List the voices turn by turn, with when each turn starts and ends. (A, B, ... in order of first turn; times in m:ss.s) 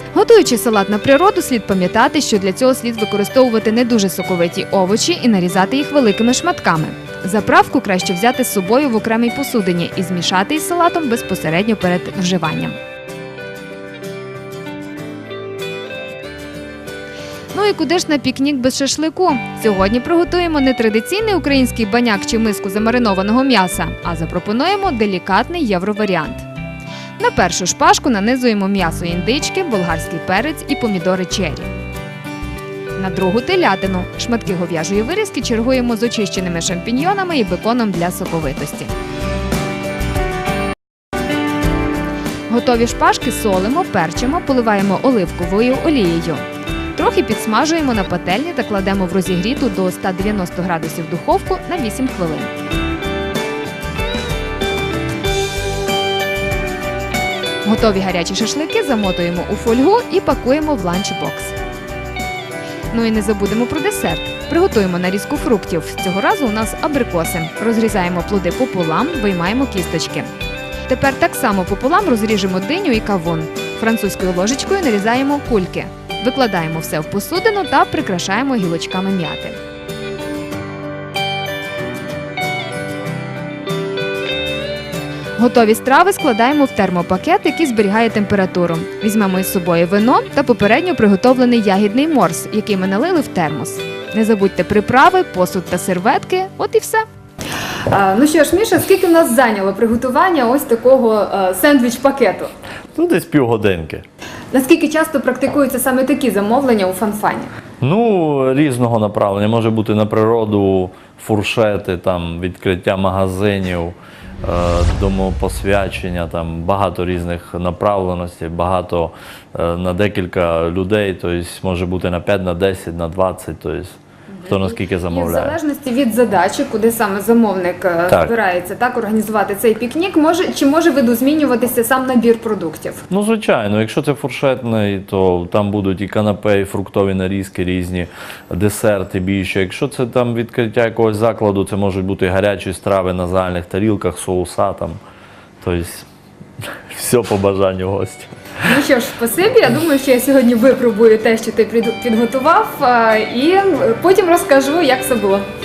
0:00.1-0:12.8 A
0:17.5-0:26.5 A
0:27.2-0:31.7 A
0:33.0-0:38.9 A
0:42.5-0:46.4 A
0:47.0-0:52.6 A
0:57.6-1:01.6 A
1:02.9-1:10.3 A
1:10.9-1:19.6 A
1:25.4-1:37.0 A
1:37.9-1:42.5 A
1:43.0-1:44.0 B
1:44.5-1:47.5 A
1:47.8-2:05.6 B
2:04.3-2:13.0 A
2:13.1-2:25.0 B
2:25.6-2:26.1 B
2:26.9-2:28.3 B
2:28.6-2:35.5 A